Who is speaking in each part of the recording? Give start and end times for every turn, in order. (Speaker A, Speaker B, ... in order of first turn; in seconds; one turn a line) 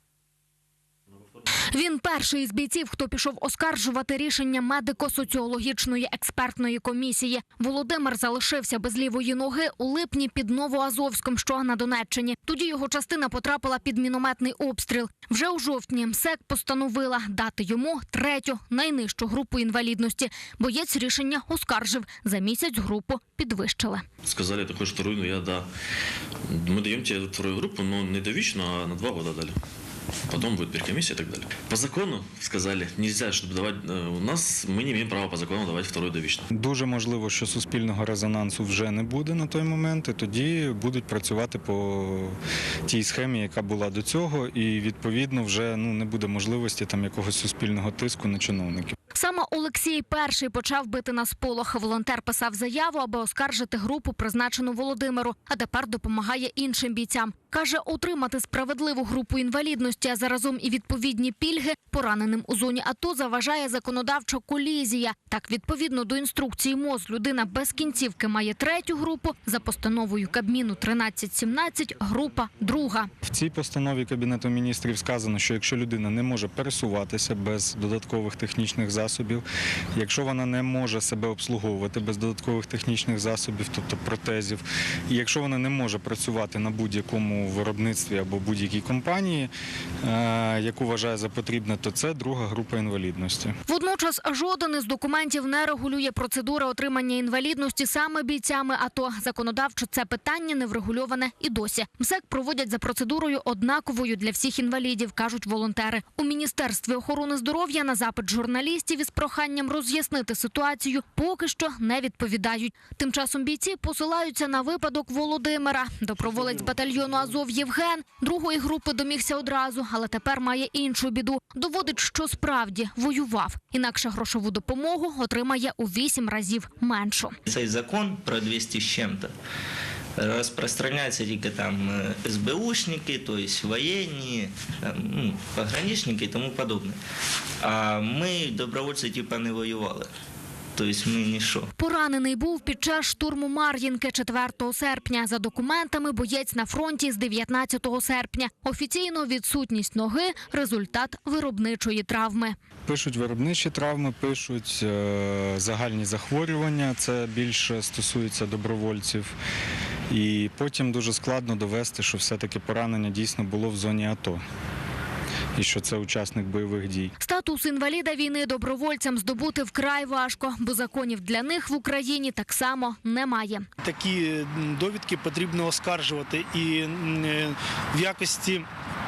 Speaker A: 1.7-24.0
Speaker B: 24.2-25.7
Speaker B: 26.5-29.6
Speaker B: 30.3-36.5
Speaker C: 36.5-42.4
Speaker C: 42.9-48.9
Speaker A: 49.1-73.1
Speaker C: 73.2-79.4
Speaker C: 79.9-89.5
Speaker C: 90.0-93.5
Speaker A: 93.7-127.3
Speaker D: 127.5-129.3
Speaker D: 130.2-137.0
Speaker D: 137.6-140.1
Speaker D: 140.7-141.7
Speaker A: 141.8-152.6
Speaker C: 152.8-159.3
Speaker C: 160.1-164.4
Speaker C: 165.6-167.1
Speaker A: 167.2-173.7
Speaker E: 173.8-178.6